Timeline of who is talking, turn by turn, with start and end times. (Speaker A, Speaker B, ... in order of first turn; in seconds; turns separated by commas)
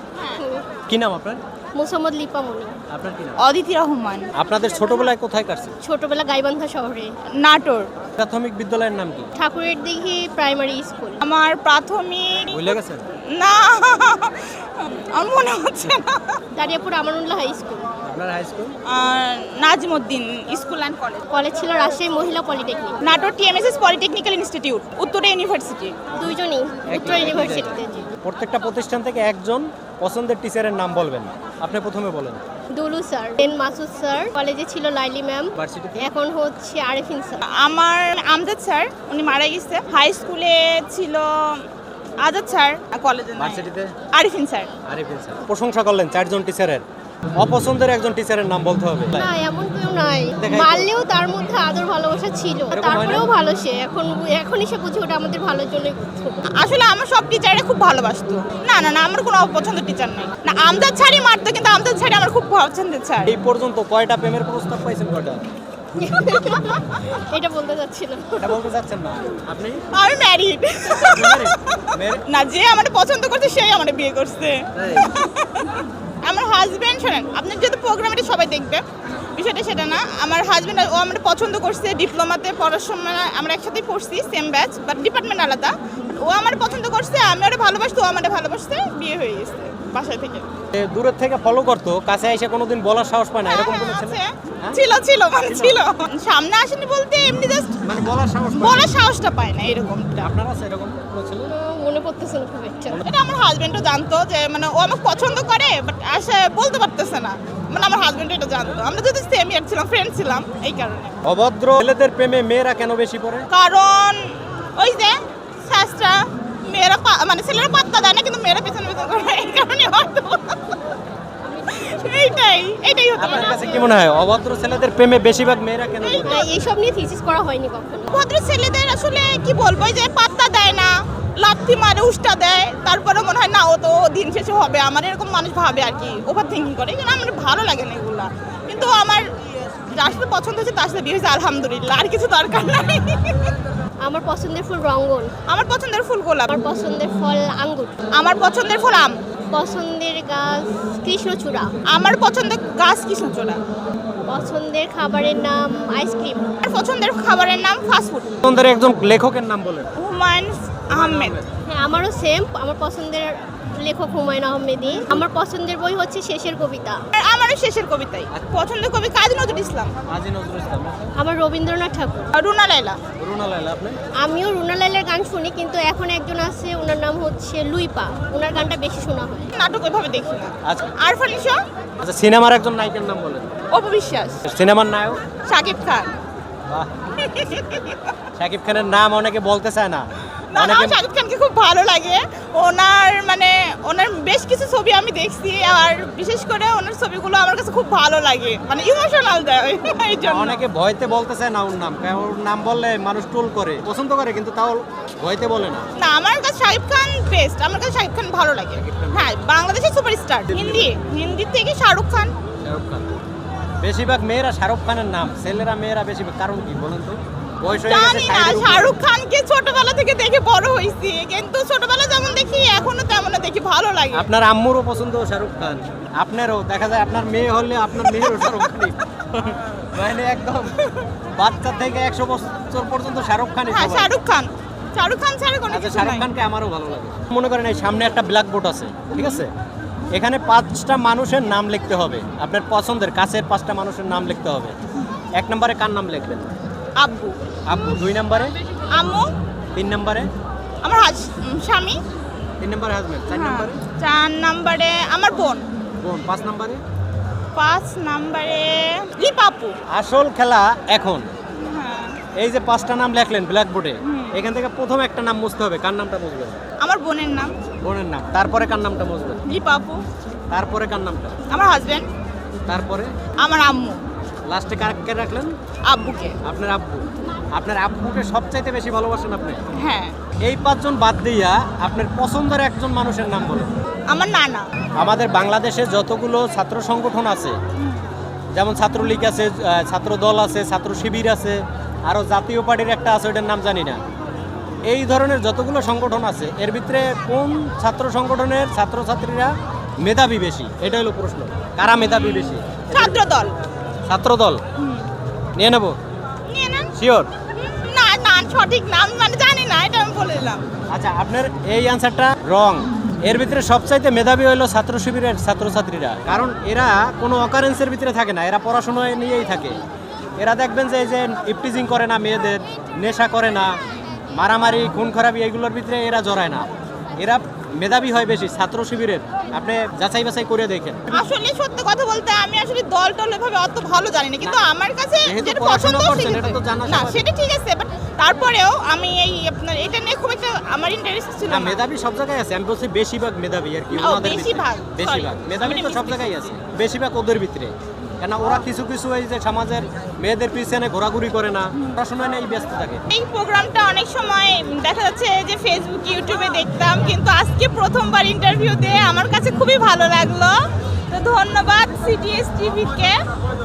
Speaker A: 0.2-0.4, Speaker B: 0.4-0.7, Speaker C: 0.9-1.4, Speaker B: 1.8-2.8, Speaker C: 2.9-3.4, Speaker A: 3.4-4.3, Speaker C: 4.3-5.8, Speaker B: 5.8-7.2, Speaker A: 7.4-7.9, Speaker C: 8.2-9.3, Speaker B: 9.4-11.2, Speaker A: 11.2-12.8, Speaker C: 12.5-13.1, Speaker A: 13.3-16.4, Speaker B: 16.6-17.9, Speaker C: 18.0-18.7, Speaker A: 18.9-21.2, Speaker B: 21.3-23.0, Speaker A: 23.0-26.0, Speaker B: 26.1-28.1, Speaker C: 26.9-32.4, Speaker B: 32.7-37.4, Speaker C: 35.6-36.1, Speaker A: 37.5-41.7, Speaker A: 42.2-44.7, Speaker C: 43.4-43.9, Speaker C: 44.9-46.8, Speaker C: 47.4-49.3, Speaker B: 49.1-56.4, Speaker C: 50.4-50.9, Speaker C: 52.7-53.3, Speaker A: 56.5-63.4, Speaker C: 63.2-65.4, Speaker B: 66.0-68.6, Speaker C: 68.4-69.8, Speaker A: 69.9-90.5, Speaker C: 71.0-72.2, Speaker C: 74.7-75.1, Speaker C: 90.7-94.8, Speaker A: 93.5-97.9, Speaker C: 95.5-95.8, Speaker C: 97.8-98.9, Speaker A: 98.6-100.3, Speaker C: 100.2-101.5, Speaker B: 101.5-103.0, Speaker A: 103.0-111.2, Speaker C: 111.2-113.5, Speaker A: 113.5-120.8, Speaker A: 121.7-124.0, Speaker C: 123.2-126.4, Speaker A: 126.0-126.4, Speaker B: 126.2-128.3, Speaker A: 128.1-139.3, Speaker A: 139.9-143.6, Speaker B: 144.0-145.3, Speaker A: 145.5-146.5, Speaker B: 146.5-148.0, Speaker A: 148.1-149.2, Speaker B: 149.5-151.7, Speaker A: 151.9-153.6, Speaker B: 154.2-156.5, Speaker A: 156.6-158.4, Speaker C: 158.4-159.9, Speaker A: 160.0-161.4, Speaker C: 160.9-161.5, Speaker B: 161.7-167.0, Speaker A: 167.1-169.9, Speaker C: 170.1-171.1, Speaker B: 171.2-172.3, Speaker A: 172.3-173.0, Speaker C: 173.2-174.0, Speaker B: 174.2-179.5, Speaker A: 179.5-181.6, Speaker C: 180.6-180.9, Speaker C: 182.0-183.5, Speaker A: 183.7-184.4, Speaker C: 184.4-185.2, Speaker A: 185.5-186.1, Speaker A: 187.2-188.2, Speaker C: 188.4-191.0, Speaker A: 190.5-200.6, Speaker C: 200.3-205.9, Speaker A: 206.0-212.3, Speaker C: 208.8-209.3, Speaker C: 210.5-211.0, Speaker C: 212.6-213.0, Speaker C: 213.8-218.9, Speaker A: 217.8-224.3, Speaker C: 224.1-230.8, Speaker A: 228.1-228.7, Speaker C: 231.3-234.1, Speaker A: 233.7-236.3, Speaker C: 235.7-239.5, Speaker A: 239.1-239.4, Speaker C: 240.1-244.8, Speaker C: 245.4-246.5, Speaker A: 247.0-247.4, Speaker C: 247.7-248.6, Speaker A: 248.9-249.3, Speaker C: 249.8-250.3, Speaker A: 250.8-252.0, Speaker C: 252.6-253.8, Speaker A: 253.3-255.7, Speaker C: 256.0-256.8, Speaker A: 257.6-259.8, Speaker C: 259.9-261.3, Speaker A: 261.6-262.2, Speaker C: 262.4-266.6, Speaker A: 264.0-264.3, Speaker A: 266.8-267.6, Speaker C: 267.8-269.4, Speaker A: 269.5-270.0, Speaker C: 270.5-271.4, Speaker A: 271.5-272.1, Speaker C: 272.7-273.1, Speaker A: 273.4-274.0, Speaker C: 274.5-275.5, Speaker A: 275.9-276.4, Speaker C: 276.4-279.6, Speaker A: 279.8-280.1, Speaker C: 280.4-283.7, Speaker A: 284.1-284.7, Speaker C: 285.0-287.6, Speaker C: 288.6-294.0, Speaker C: 294.9-303.2, Speaker A: 302.0-303.5, Speaker C: 304.1-304.6, Speaker A: 304.8-305.1, Speaker C: 305.6-305.9, Speaker A: 306.5-306.9, Speaker C: 307.0-307.3, Speaker A: 307.6-310.6, Speaker C: 310.9-319.8, Speaker C: 320.4-323.8, Speaker C: 324.3-331.2, Speaker A: 331.1-341.8, Speaker C: 335.2-337.2, Speaker C: 341.5-353.0, Speaker A: 343.9-346.4, Speaker A: 353.1-363.2